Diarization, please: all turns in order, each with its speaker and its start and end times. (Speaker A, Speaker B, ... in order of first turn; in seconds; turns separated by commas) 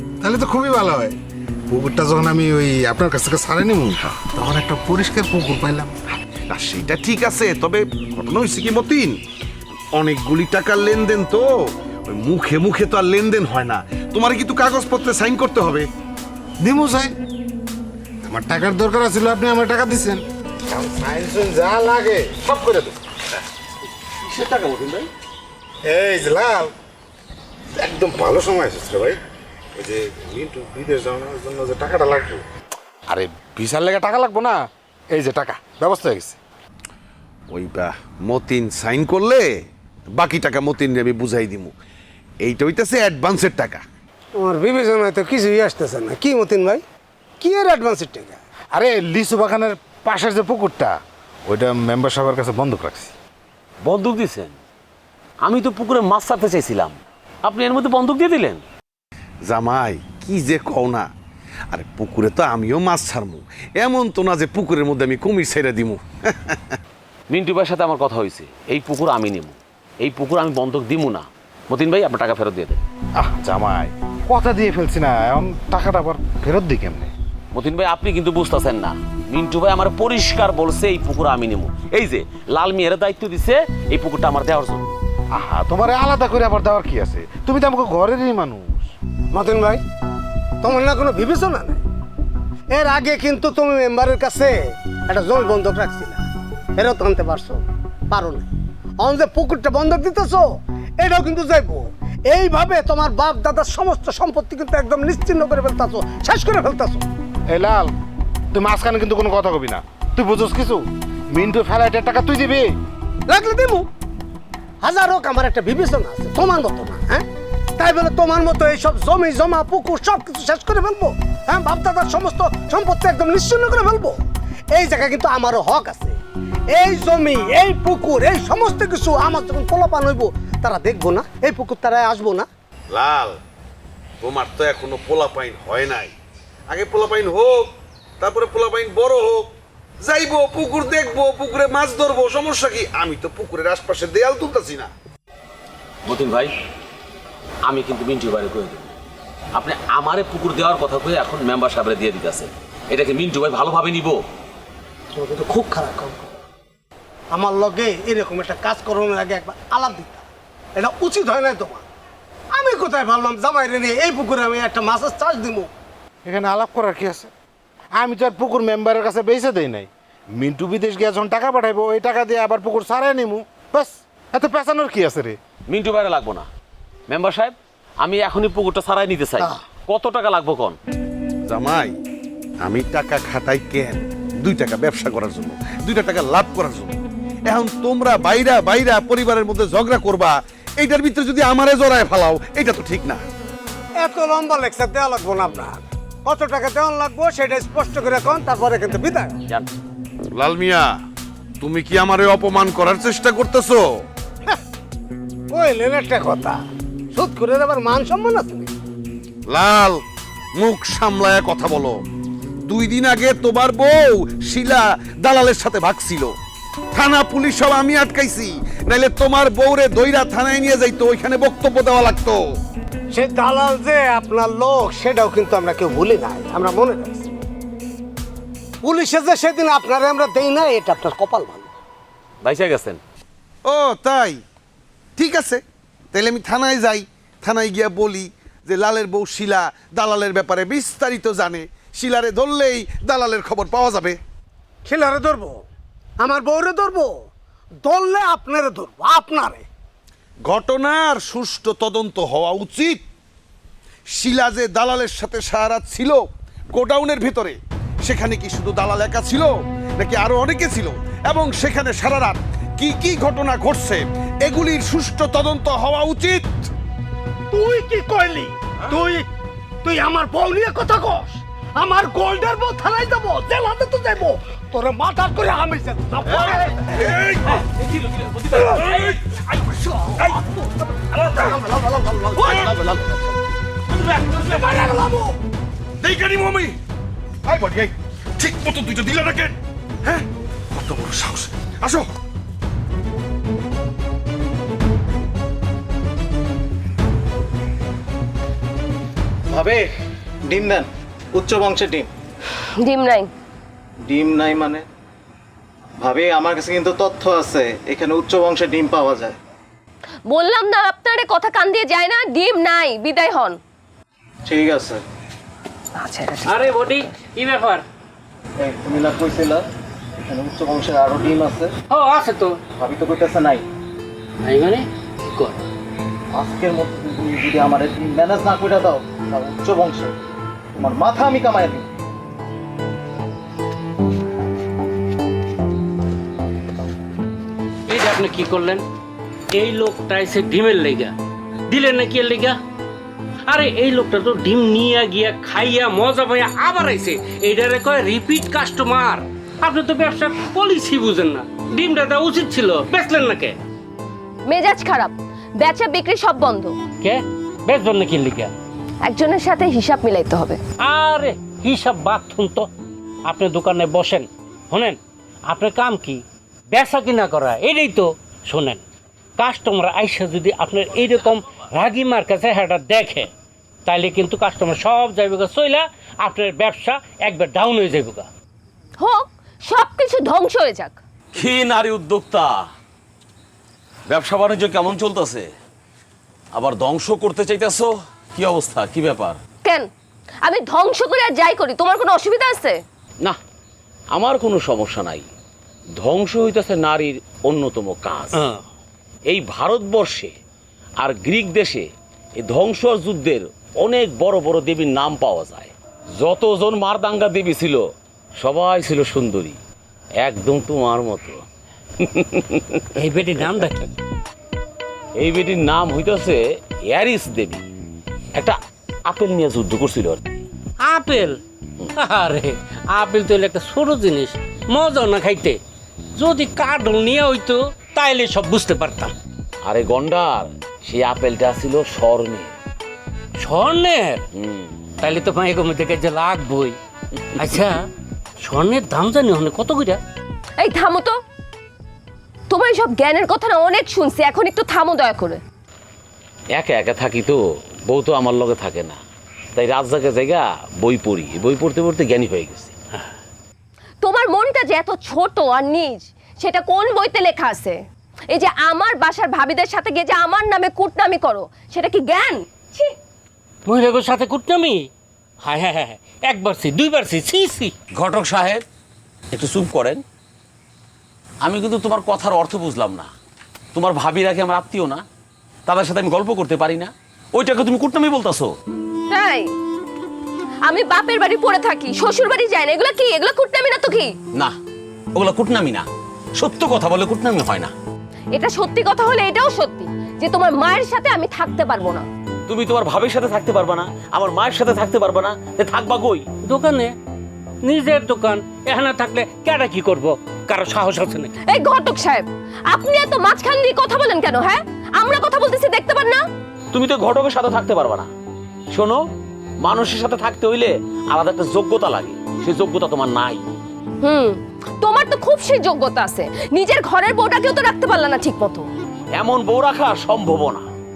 Speaker A: 0.2-1.1, Speaker A: 1.7-5.9, Speaker B: 6.5-9.2, Speaker B: 9.9-11.5, Speaker B: 12.1-15.9, Speaker A: 16.6-17.2, Speaker A: 18.3-23.0, Speaker C: 24.3-25.1, Speaker A: 25.9-26.7, Speaker A: 27.8-29.2, Speaker A: 29.8-32.4, Speaker A: 33.1-34.6, Speaker A: 35.1-36.4, Speaker B: 37.5-39.5, Speaker B: 40.1-41.8, Speaker B: 42.4-43.8, Speaker D: 44.4-46.8, Speaker D: 47.4-48.4, Speaker A: 48.7-51.0, Speaker A: 51.5-53.1, Speaker C: 53.8-54.5, Speaker C: 55.4-58.6, Speaker B: 59.5-61.1, Speaker B: 61.7-66.8, Speaker C: 67.3-72.8, Speaker A: 73.2-77.1, Speaker C: 77.5-84.9, Speaker A: 85.3-88.9, Speaker D: 89.3-89.8, Speaker D: 90.6-91.8, Speaker D: 92.7-96.2, Speaker D: 96.8-107.1, Speaker A: 107.5-107.9, Speaker A: 108.5-112.7, Speaker D: 113.3-113.9, Speaker D: 114.8-117.2, Speaker D: 117.8-124.2, Speaker D: 124.7-126.2, Speaker D: 126.7-132.5, Speaker B: 132.9-133.4, Speaker B: 134.2-136.1, Speaker B: 136.7-139.5, Speaker B: 140.0-144.9, Speaker C: 146.1-146.5, Speaker C: 147.7-148.9, Speaker C: 149.6-154.2, Speaker D: 155.2-156.3, Speaker D: 157.3-160.2, Speaker D: 160.8-161.8, Speaker D: 162.5-165.7, Speaker A: 166.2-167.3, Speaker A: 168.0-175.4, Speaker C: 175.7-176.5, Speaker C: 177.1-180.8, Speaker B: 181.5-181.9, Speaker B: 182.6-186.9, Speaker B: 187.5-193.2, Speaker D: 194.0-199.4, Speaker B: 200.3-200.9, Speaker B: 201.6-204.0, Speaker D: 205.5-206.6, Speaker D: 207.1-208.7, Speaker B: 209.5-210.0, Speaker B: 210.6-212.0, Speaker B: 212.7-216.3, Speaker B: 216.9-222.4, Speaker D: 223.1-227.3, Speaker D: 228.8-231.7, Speaker C: 232.4-233.0, Speaker B: 233.7-234.4, Speaker B: 235.2-235.6, Speaker B: 236.1-244.2, Speaker D: 244.8-245.7, Speaker D: 246.2-247.2, Speaker D: 247.8-249.7, Speaker B: 250.5-253.0, Speaker B: 254.1-266.7, Speaker D: 267.5-269.3, Speaker D: 269.8-277.0, Speaker B: 276.4-279.2, Speaker B: 281.1-283.3, Speaker D: 282.4-282.7, Speaker B: 283.9-284.6, Speaker D: 284.4-285.4, Speaker B: 286.0-286.8, Speaker B: 287.5-292.1, Speaker E: 299.5-299.9, Speaker E: 300.5-302.1, Speaker F: 302.8-303.3, Speaker E: 304.1-304.8, Speaker E: 306.0-309.4, Speaker F: 310.3-313.6, Speaker E: 314.5-315.0, Speaker G: 316.4-317.8, Speaker E: 318.6-319.6, Speaker E: 320.2-321.7, Speaker G: 321.9-322.6, Speaker E: 322.8-323.6, Speaker G: 324.4-325.6, Speaker E: 326.3-330.1, Speaker E: 330.8-331.9, Speaker G: 337.9-338.8, Speaker G: 339.5-341.1, Speaker G: 341.7-342.6, Speaker G: 343.5-353.6, Speaker F: 354.5-356.7, Speaker G: 357.0-358.5, Speaker F: 359.1-360.6, Speaker G: 360.8-362.7, Speaker G: 363.3-368.8, Speaker G: 369.4-373.3, Speaker G: 373.9-378.3, Speaker F: 379.0-380.9, Speaker C: 381.3-382.7, Speaker C: 384.1-385.5, Speaker C: 386.5-389.4, Speaker F: 390.4-392.8, Speaker C: 394.1-395.3, Speaker C: 396.0-398.4, Speaker C: 399.3-400.4, Speaker C: 401.0-407.9, Speaker C: 408.4-409.6, Speaker C: 410.2-411.4, Speaker C: 412.0-412.9, Speaker G: 413.0-413.9, Speaker C: 415.2-417.6, Speaker C: 418.4-420.2, Speaker G: 420.9-421.4, Speaker G: 422.0-425.6, Speaker G: 426.2-429.1, Speaker C: 429.6-432.5, Speaker G: 433.4-434.2, Speaker C: 434.3-434.8, Speaker G: 435.0-436.8, Speaker G: 437.4-437.8, Speaker G: 438.4-440.0, Speaker F: 440.6-441.2, Speaker F: 442.5-445.4, Speaker C: 446.5-449.0, Speaker C: 449.6-452.8, Speaker F: 454.0-462.9, Speaker G: 463.7-464.9, Speaker G: 465.4-467.8, Speaker C: 468.0-468.6, Speaker C: 469.3-470.0, Speaker C: 471.4-473.1, Speaker C: 473.7-475.0, Speaker C: 475.7-478.5, Speaker F: 479.1-479.5, Speaker F: 480.7-484.1, Speaker C: 485.1-485.9, Speaker C: 486.4-487.7, Speaker F: 488.3-492.1, Speaker C: 492.5-496.3, Speaker G: 496.5-496.9, Speaker G: 497.6-501.3, Speaker F: 501.5-506.2, Speaker C: 506.7-508.1, Speaker C: 508.7-509.0, Speaker C: 509.6-513.4, Speaker F: 514.0-518.6, Speaker C: 519.2-520.7